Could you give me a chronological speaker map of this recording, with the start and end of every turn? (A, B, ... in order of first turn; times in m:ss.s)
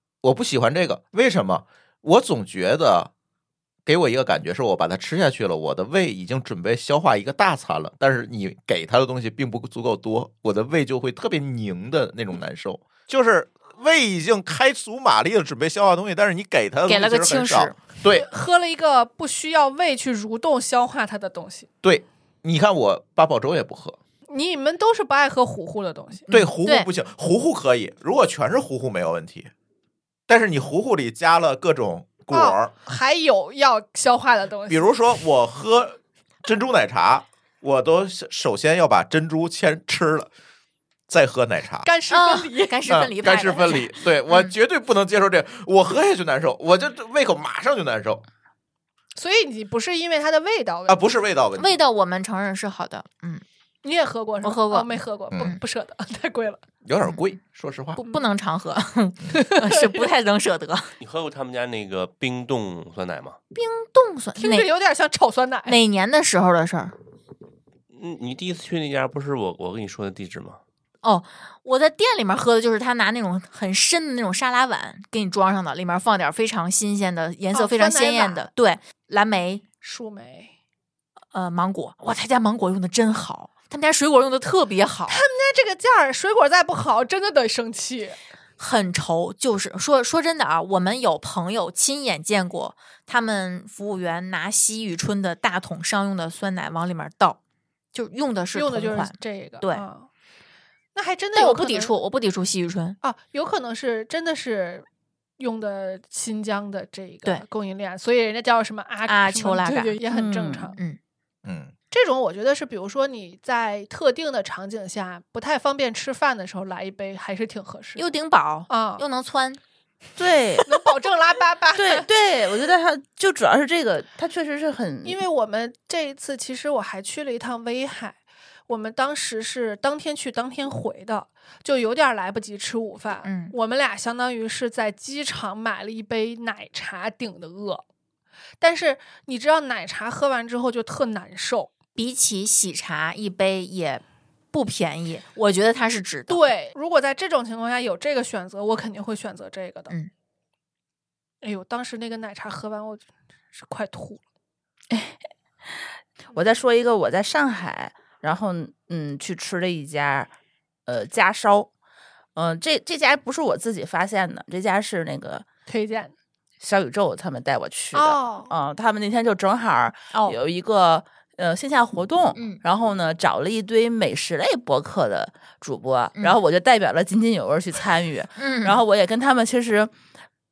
0:00.2-0:03.1 A
0:03.8-0:18.3 A
0:16.9-0:17.8 B
0:18.1-0:21.7 C
0:21.8-0:24.0 A
0:24.3-0:26.3 C
0:26.3-0:26.9 B
0:26.3-0:29.5 A
0:30.3-0:32.7 A
0:32.3-0:34.8 C
0:34.7-0:40.3 A
0:41.1-0:41.9 A
0:41.8-0:42.8 C
0:42.1-0:44.5 B
0:42.9-0:48.2 A
0:49.1-0:51.0 C
0:50.9-0:51.8 A
0:51.6-0:53.4 B
0:53.8-0:56.6 C
0:54.4-0:55.6 B
0:55.3-0:55.6 A
0:56.8-0:58.0 A
0:58.0-1:00.9 B
0:59.4-1:00.1 C
1:01.0-1:03.4 D
1:03.5-1:04.7 B
1:04.4-1:05.8 C
1:05.6-1:06.9 B
1:07.9-1:10.6 D
1:11.0-1:19.6 B
1:17.5-1:18.5 C
1:19.8-1:20.5 C
1:21.3-1:25.2 B
1:25.1-1:28.2 C
1:28.6-1:37.4 B
1:37.9-1:39.8 B
1:38.5-1:40.1 C
1:40.9-1:41.9 C
1:41.3-1:43.0 B
1:43.0-1:44.8 C
1:45.4-1:50.8 C
1:49.0-1:50.0 B
1:50.1-1:50.7 E
1:51.4-1:51.7 A
1:51.9-1:58.0 C
1:58.0-1:59.6 B
1:58.7-1:59.0 C
2:00.2-2:00.8 E
2:00.6-2:02.1 C
2:01.7-2:05.2 E
2:05.0-2:17.8 C
2:13.2-2:13.5 B
2:18.6-2:21.7 C
2:22.0-2:26.5 B
2:26.3-2:29.9 C
2:31.4-2:34.2 C
2:34.9-2:35.2 E
2:36.3-2:40.3 E
2:40.9-2:41.7 E
2:42.3-2:45.5 E
2:45.7-2:46.1 C
2:46.6-2:59.9 E
2:47.9-2:48.5 C
2:50.1-2:50.4 B
2:52.3-2:52.6 B
2:58.4-2:58.8 B